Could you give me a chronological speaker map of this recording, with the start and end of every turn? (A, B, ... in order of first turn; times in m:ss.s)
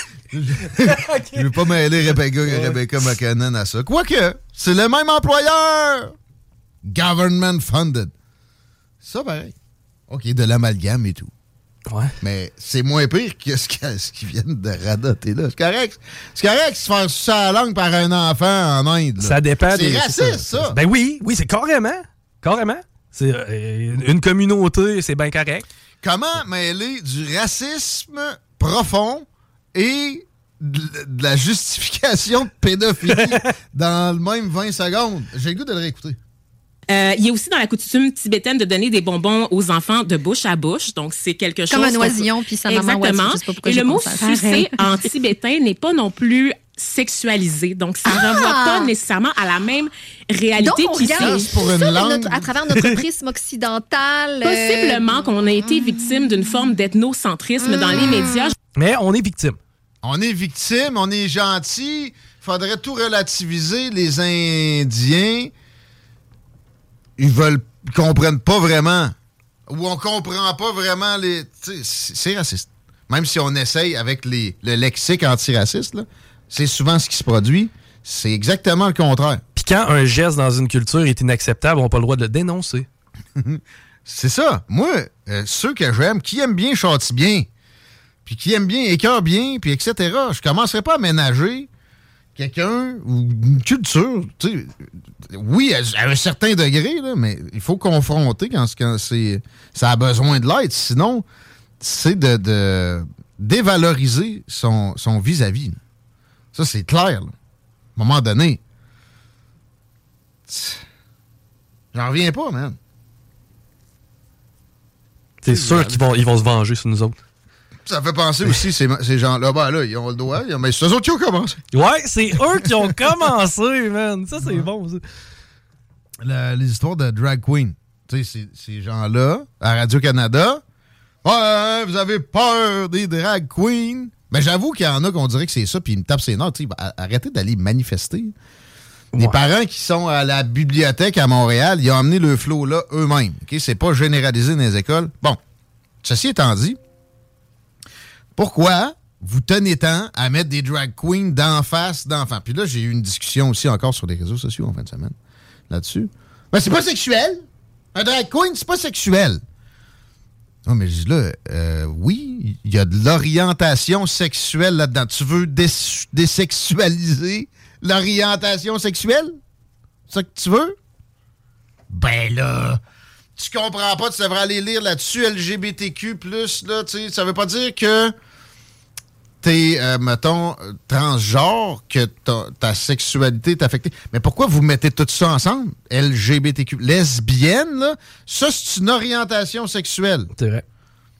0:00.3-0:06.2 A
0:00.7-0:01.4 B
0:02.5-0:02.8 B
0:06.8-0:08.1 A
0:09.0-0:09.5 A
0:10.1-0:11.3 A
0:11.9-0:12.1 B
0:12.2-0:20.8 A
0:19.2-0:25.7 B
0:26.0-0:36.2 A
0:36.9-0:51.4 C
0:41.7-0:45.1 D
0:48.1-0:48.9 D
0:50.6-0:55.3 D
0:51.2-0:52.5 A
0:54.4-0:58.6 C
0:58.0-0:58.3 D
0:58.8-0:59.6 B
1:00.0-1:05.5 A
1:07.2-1:09.2 A
1:09.7-1:19.4 A
1:19.6-1:22.9 B
1:23.4-1:27.5 A
1:28.2-1:31.7 A
1:32.4-1:41.3 A
1:41.8-1:45.8 A
1:46.5-1:47.3 A
1:48.0-1:48.6 A
1:50.5-1:50.8 A
1:51.9-1:52.8 A
1:55.4-1:57.2 B
1:55.5-1:56.1 A
1:57.9-2:01.6 A
2:01.7-2:05.0 B
2:04.4-2:04.7 A
2:06.2-2:10.6 A
2:11.2-2:18.3 A
2:19.1-2:25.4 A
2:26.0-2:26.8 A
2:28.4-2:35.1 A
2:35.7-2:39.4 A
2:40.6-2:49.4 A
2:50.1-2:50.8 A
2:51.9-2:52.8 A
2:53.4-2:58.1 A
2:59.4-3:10.3 A
3:10.4-3:10.6 B